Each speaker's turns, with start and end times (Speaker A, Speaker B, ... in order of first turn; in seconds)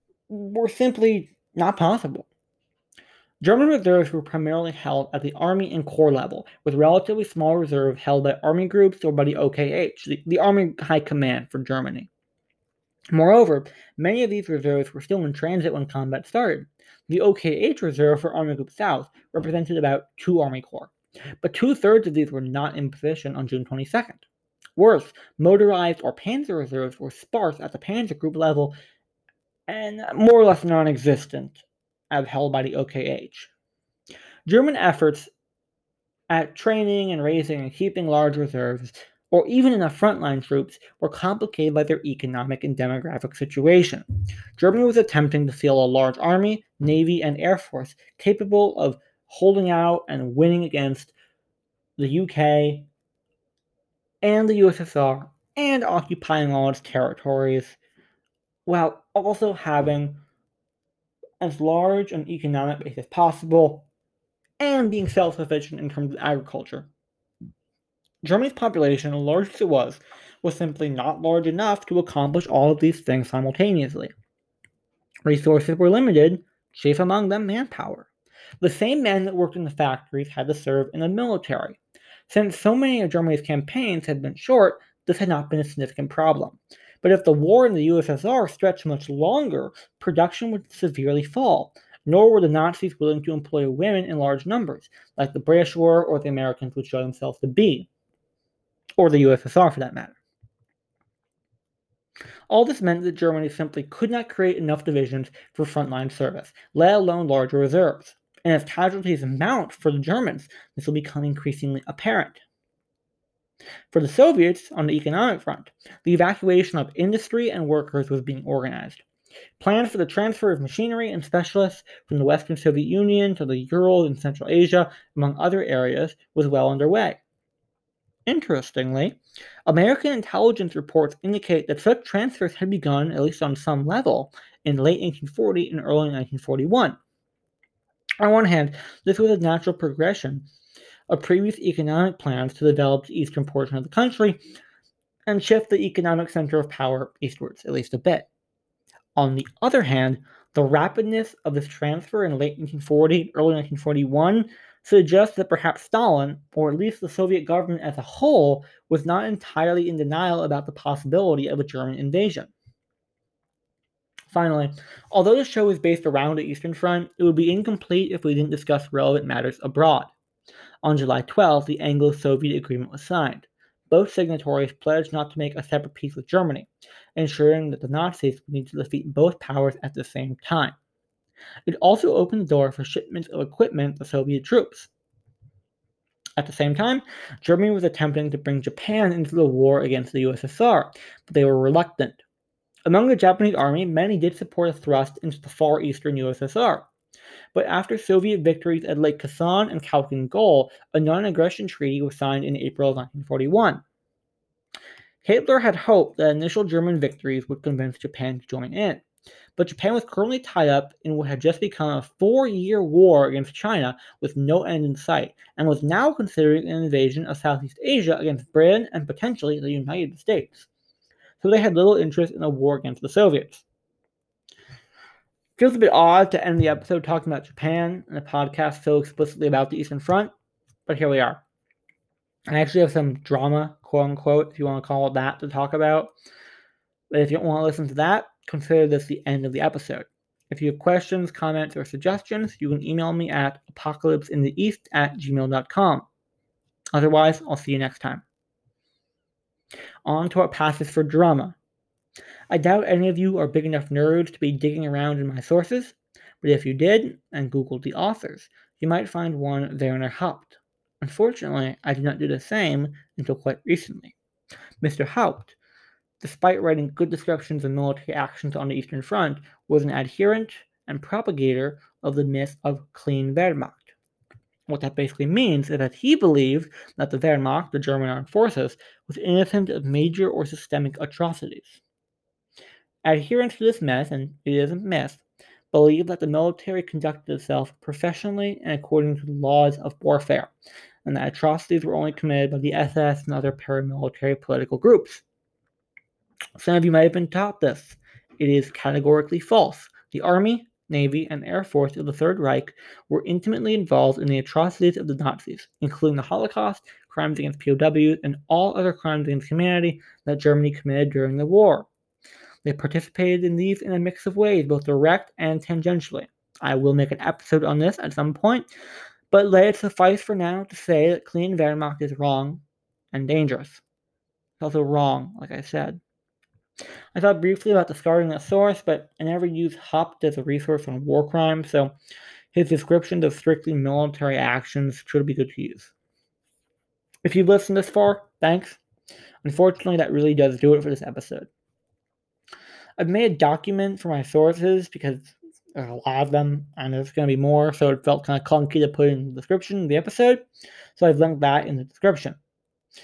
Speaker A: 0.3-2.3, 3.4-12.1, 13.1-24.2, 24.8-28.7, 29.7-33.5, 34.5-35.3, 36.3-44.0, 44.6-51.1, 52.0-52.9, 54.2-57.8, 58.7-60.2, 61.4-63.9, 64.6-66.9, 68.2-74.1, 75.3-78.1, 78.6-97.9, 99.0-100.2, 102.5-112.4, 113.9-119.0, 119.6-127.2, 128.3-137.0, 138.2-140.4, 141.1-144.4, 145.3-148.3, 149.2-162.5, 164.3-170.1, 170.8-180.8, 181.7-184.9, 186.4-192.2, 192.9-196.9, 197.5-203.8, 205.2-209.0, 209.6-220.7, 221.4-223.7, 225.6-230.3, 230.9-231.4, 232.5-236.1, 237.1-246.1, 246.9-248.2, 250.1-251.6, 252.5-264.1, 264.8-265.6, 266.2-273.9, 274.7-281.8, 283.0-290.5, 291.1-295.2, 296.6-311.9, 312.6-318.7, 319.3-323.8, 324.6-326.0, 327.1-331.9, 332.5-335.9, 337.2-338.8, 339.4-341.5, 343.0-352.4